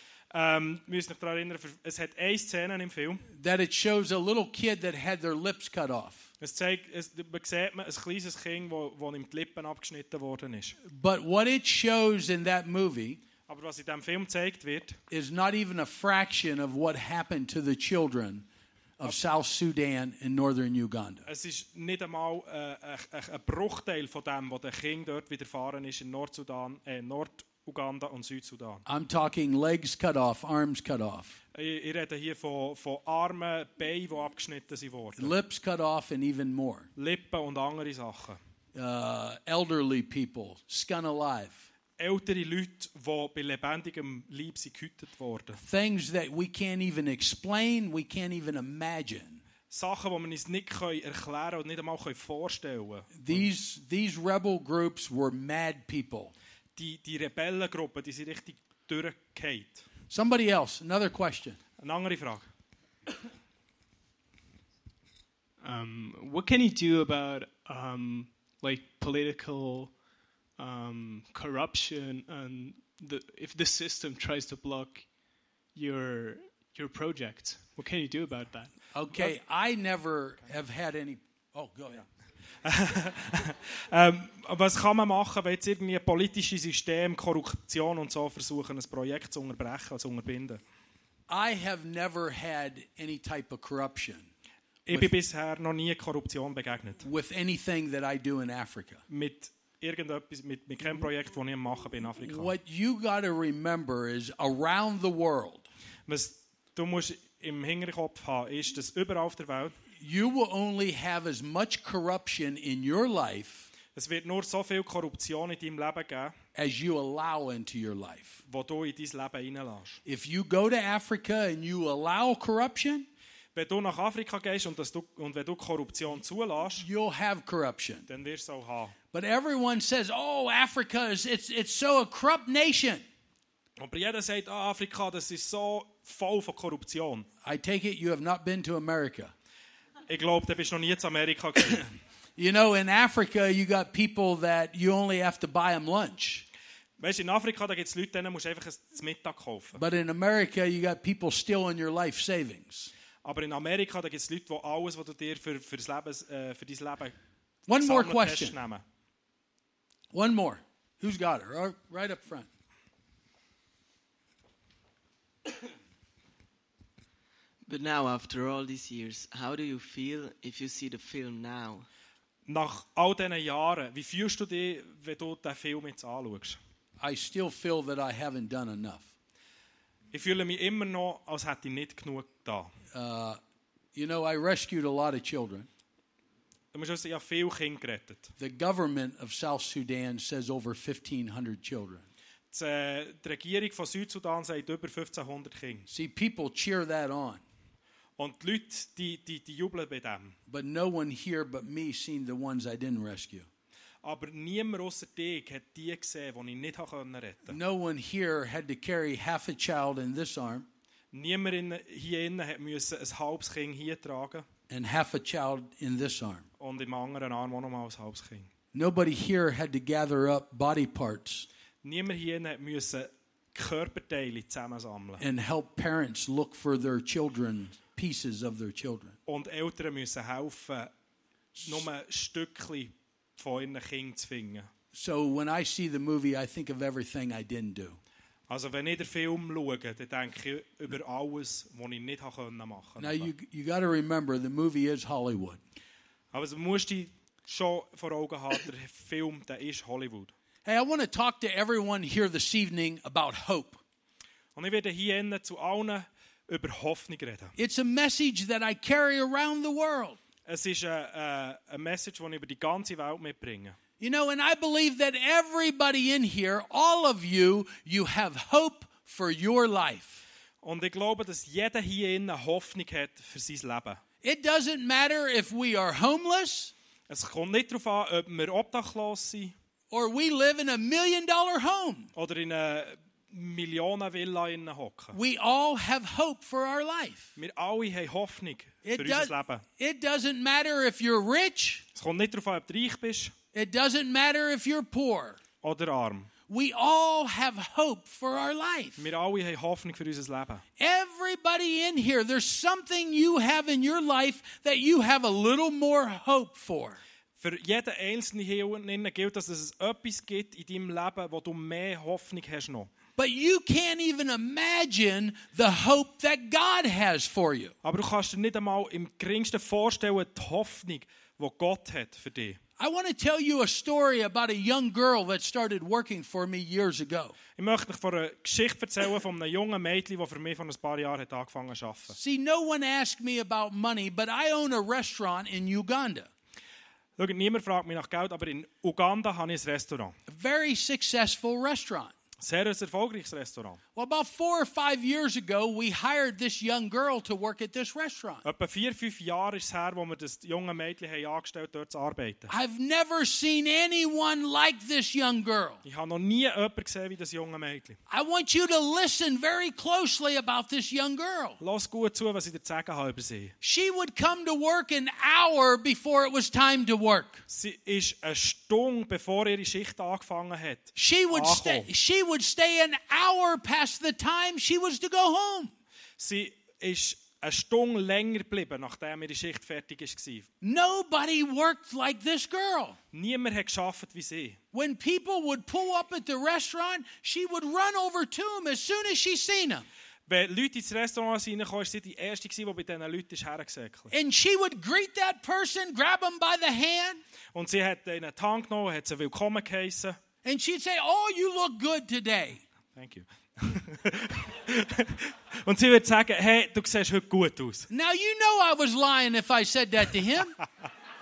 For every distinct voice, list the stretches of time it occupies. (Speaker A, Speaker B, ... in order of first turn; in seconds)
Speaker A: 0.3-3.2, 6.4-10.8, 13.5-15.0, 21.2-28.8, 31.5-35.3, 37.0-38.4, 42.0-45.6, 49.7-53.4, 56.8-59.9, 61.8-62.5, 82.6-90.6, 94.9-97.0, 99.1-102.5, 106.1-109.8, 113.9-116.3, 118.5-120.0, 123.5-126.8, 128.1-128.9, 133.8-137.3, 140.1-141.9, 147.0-149.8, 153.2-157.1, 157.8-158.8, 172.4-176.6, 180.1-182.7, 186.7-188.3, 192.5-195.9, 198.2-200.3, 204.0-207.6, 211.1-214.5, 216.6-218.5, 221.8-225.2, 229.3-230.9, 231.6-234.7, 238.5-243.3, 246.3-250.3, 254.6-257.5, 260.4-263.8, 270.6-274.0, 277.1-279.5, 282.1-285.1, 287.4-289.6, 291.9-293.3, 295.6-296.3, 299.0-300.6, 307.4-312.9, 317.8-322.6, 327.6-332.1, 337.2-340.1, 342.4-343.8, 348.4-352.5, 355.8-358.0, 361.6-363.5, 367.5-371.9, 376.2-380.5, 383.1-384.6, 390.3-394.1, 397.5-400.2, 402.9-407.9
Speaker B: 3.3-6.3, 10.8-13.2, 15.1-18.5, 19.0-21.2, 28.9-31.4, 35.1-36.9, 38.7-41.6, 45.6-49.4, 53.1-56.3, 60.1-61.6, 78.9-82.0, 91.3-94.3, 97.0-99.0, 102.2-105.7, 110.0-113.7, 116.5-118.4, 120.0-123.1, 126.8-128.1, 129.1-133.0, 137.4-139.3, 142.4-146.4, 149.7-152.9, 157.7-158.6, 160.1-162.5, 177.0-179.1, 182.9-183.4, 183.9-185.7, 188.4-192.1, 195.9-197.4, 200.5-203.5, 207.5-210.7, 214.7-216.4, 218.7-221.5, 225.2-229.2, 234.9-238.0, 243.0-245.6, 250.6-253.8, 257.6-260.2, 264.0-270.2, 274.2-276.7, 279.9-282.1, 285.1-287.3, 288.8-291.8, 293.5-295.4, 296.5-299.0, 300.8-307.0, 313.2-317.7, 322.8-327.4, 332.1-336.3, 340.3-342.1, 343.9-348.4, 352.5-355.8, 358.1-361.6, 363.6-367.4, 370.9-375.7, 380.6-383.0, 384.7-389.9, 394.1-397.2, 400.4-402.6, 407.9-410.6
Speaker C: 65.6-70.0, 70.5-78.8
Speaker D: 167.7-171.9